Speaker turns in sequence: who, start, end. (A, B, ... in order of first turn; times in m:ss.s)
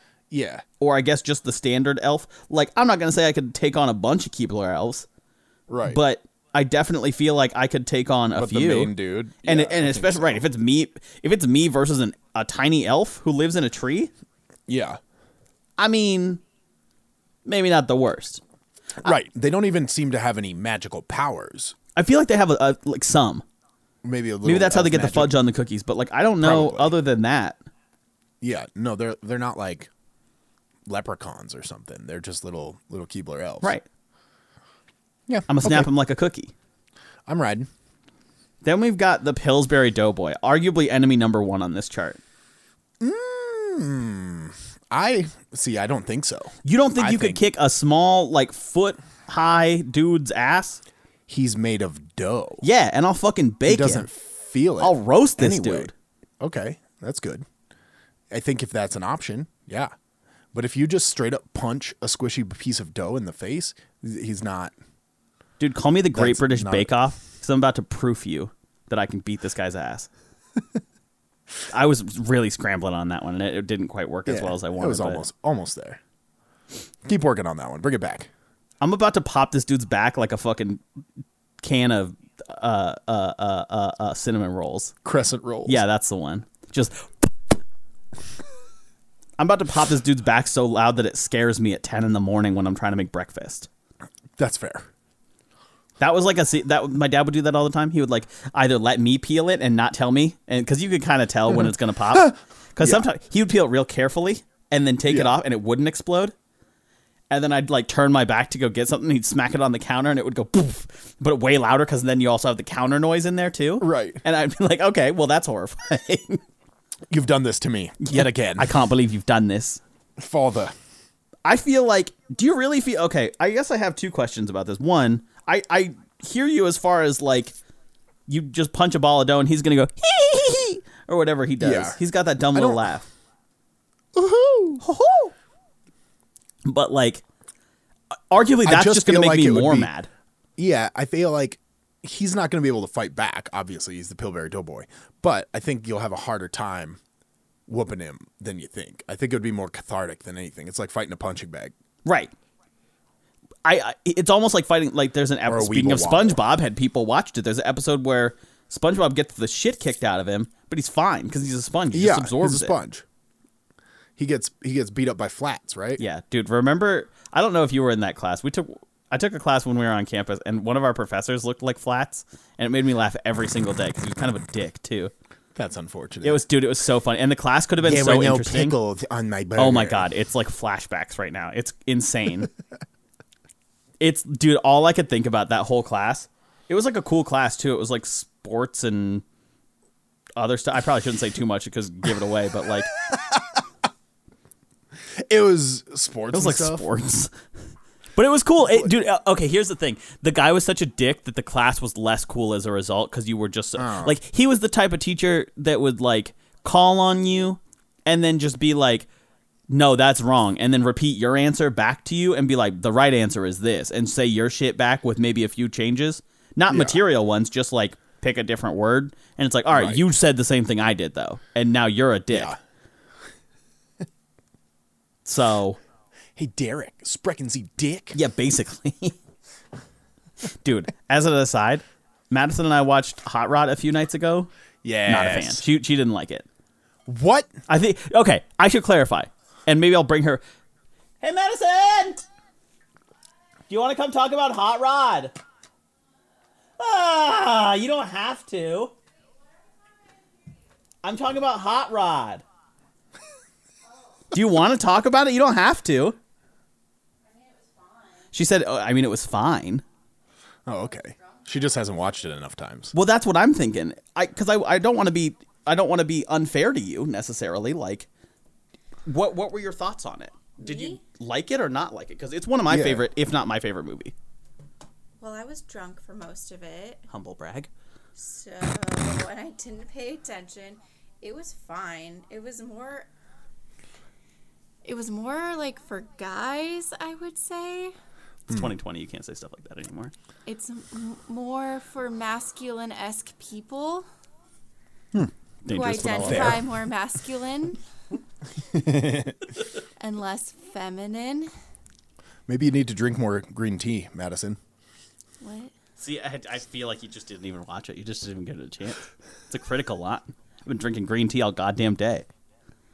0:00.3-0:00.6 A
0:00.8-0:05.1 B
0:05.7-0:06.0 A
0:05.9-0:14.1 B
0:08.4-0:10.5 A
0:14.7-0:15.0 A
0:15.8-0:16.4 B
0:17.5-0:18.4 B
0:19.0-0:21.8 A
0:22.0-0:23.4 B
0:24.0-0:25.4 A
0:24.4-0:27.6 B
0:26.4-0:27.0 A
0:28.4-0:29.9 A
0:30.9-0:33.8 A
0:35.3-0:35.9 A
0:35.5-0:36.5 B
0:37.3-0:37.7 A
0:38.6-0:42.2 B
0:43.0-0:47.4 A
0:46.6-0:50.8 B
0:51.3-0:52.6 A
0:52.6-0:54.1 B
0:53.7-0:57.5 A
0:54.8-0:55.9 B
0:58.3-0:59.9 A
1:00.5-1:04.7 A
1:05.6-1:10.1 B
1:06.1-1:06.9 A
1:11.7-1:15.3 B
1:14.3-1:16.0 A
1:17.0-1:18.3 A
1:18.8-1:20.8 B
1:21.6-1:24.9 B
1:25.0-1:25.8 A
1:25.7-1:27.3 B
1:29.4-1:33.7 B
1:34.4-1:34.9 A
1:36.0-1:46.3 B
1:42.8-1:43.1 A
1:45.1-1:45.3 A
1:47.3-1:56.4 B
1:53.8-1:54.2 A
1:57.1-1:58.7 A
1:58.0-1:59.8 B
2:00.2-2:00.7 A
2:01.4-2:07.5 B
2:08.3-2:13.1 B
2:11.6-2:12.9 A
2:14.2-2:14.8 A
2:14.8-2:15.3 B
2:16.6-2:17.2 B
2:18.3-2:20.1 B
2:18.6-2:19.9 A
2:20.6-2:27.0 A
2:27.7-2:31.7 A
2:32.0-2:32.3 B
2:33.6-2:42.8 B
2:35.5-2:36.4 A
2:41.9-2:43.0 A
2:44.2-2:46.0 A
2:46.0-2:55.1 B
2:55.6-2:56.4 A
2:56.2-2:58.8 B
2:57.8-3:00.1 A
2:59.6-3:02.5 B
3:04.0-3:09.2 B
3:10.4-3:12.9 B
3:13.2-3:13.4 A
3:15.1-3:16.9 A
3:16.3-3:17.3 B
3:18.2-3:29.1 B
3:23.8-3:24.2 A
3:29.7-3:42.6 B
3:36.7-3:37.0 A
3:39.7-3:40.0 A
3:42.3-3:42.6 A
3:45.2-3:45.8 B
3:46.4-3:48.2 A
3:48.1-3:49.2 B
3:50.6-3:54.5 B
3:54.8-3:55.6 A
3:55.1-3:56.4 B
3:57.1-3:57.5 A
3:57.7-4:00.4 B
4:01.2-4:02.2 B
4:03.7-4:05.3 B
4:06.8-4:08.9 B
4:11.0-4:12.4 B
4:14.3-4:16.2 B
4:17.4-4:18.0 C
4:18.3-4:19.8 B
4:20.7-4:22.9 A
4:22.9-4:28.1 B
4:29.1-4:34.1 B
4:30.6-4:31.0 C
4:32.7-4:33.0 A
4:35.2-4:37.1 C
4:37.1-4:37.7 B
4:38.2-4:43.1 C
4:44.8-4:48.0 C
4:48.5-4:50.1 B
4:50.5-4:54.1 C
4:55.6-4:56.6 B
4:55.7-4:57.8 C
4:56.2-4:56.6 A
4:58.7-4:59.4 A
5:00.0-5:01.5 C
5:02.5-5:04.6 A
5:05.4-5:05.7 C
5:06.0-5:12.3 B